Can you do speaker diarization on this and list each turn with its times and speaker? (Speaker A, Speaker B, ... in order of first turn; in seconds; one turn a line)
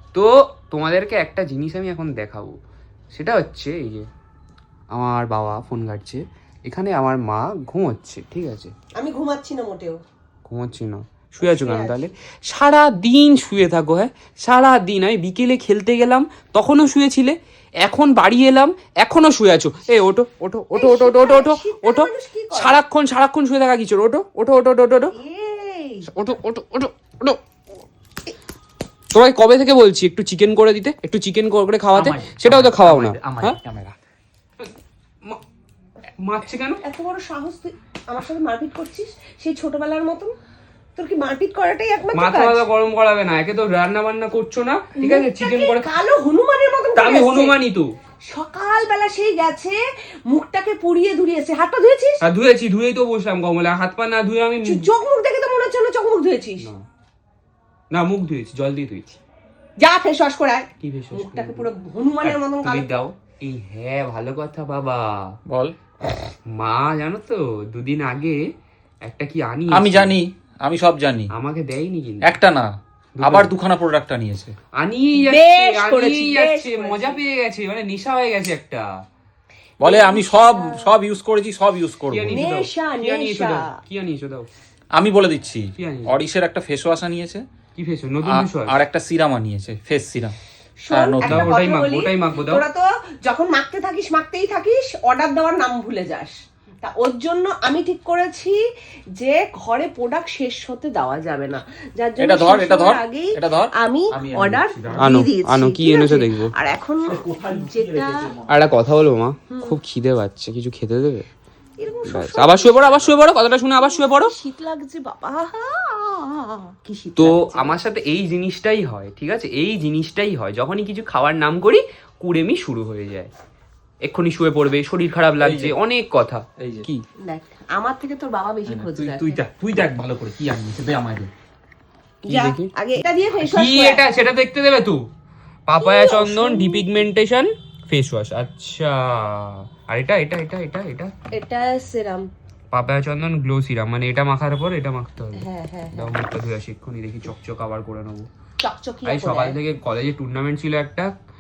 Speaker A: 0.1-2.6
Speaker A: 3.1-4.1
Speaker A: 4.9-8.7
Speaker B: 9.0-10.0
Speaker A: 10.4-25.1
Speaker B: 11.4-12.1
Speaker B: 20.8-22.8
Speaker B: 25.1-26.1
Speaker A: 26.1-27.4
Speaker A: 29.1-33.6
Speaker C: 31.9-34.0
Speaker A: 36.2-36.8
Speaker B: 36.8-40.3
Speaker B: 41.0-42.6
Speaker A: 42.1-45.9
Speaker B: 45.0-47.6
Speaker A: 47.0-47.9
Speaker B: 48.3-52.2
Speaker A: 52.2-54.9
Speaker B: 54.6-56.7
Speaker A: 57.9-59.2
Speaker B: 59.8-63.0
Speaker A: 60.8-61.7
Speaker A: 62.2-65.4
Speaker C: 65.5-65.7
Speaker A: 66.5-68.4
Speaker A: 69.0-70.2
Speaker C: 69.7-71.3
Speaker A: 71.3-72.3
Speaker C: 72.2-74.5
Speaker A: 73.2-73.5
Speaker A: 74.8-79.0
Speaker B: 75.2-77.2
Speaker B: 79.8-80.9
Speaker C: 79.8-82.4
Speaker A: 82.1-84.5
Speaker B: 82.3-83.7
Speaker C: 84.9-87.4
Speaker A: 85.8-86.2
Speaker A: 87.8-88.8
Speaker C: 88.2-90.4
Speaker B: 90.8-98.6
Speaker C: 90.9-91.6
Speaker A: 91.2-92.7
Speaker B: 99.2-108.3
Speaker C: 102.2-105.1
Speaker A: 105.0-106.5
Speaker C: 107.0-108.6
Speaker A: 108.5-111.3
Speaker B: 109.5-109.8
Speaker B: 111.8-113.2
Speaker A: 112.1-114.3
Speaker B: 113.8-117.8
Speaker A: 117.2-123.3
Speaker A: 124.0-126.5
Speaker C: 125.4-125.7
Speaker C: 126.6-127.0
Speaker B: 127.2-129.4
Speaker C: 128.7-131.3
Speaker B: 132.2-134.0
Speaker A: 132.3-132.7
Speaker A: 133.4-135.1
Speaker A: 135.7-141.1
Speaker B: 135.8-137.0
Speaker B: 141.3-142.3
Speaker A: 142.7-148.3
Speaker B: 145.4-146.1
Speaker B: 148.6-149.6
Speaker A: 149.1-151.1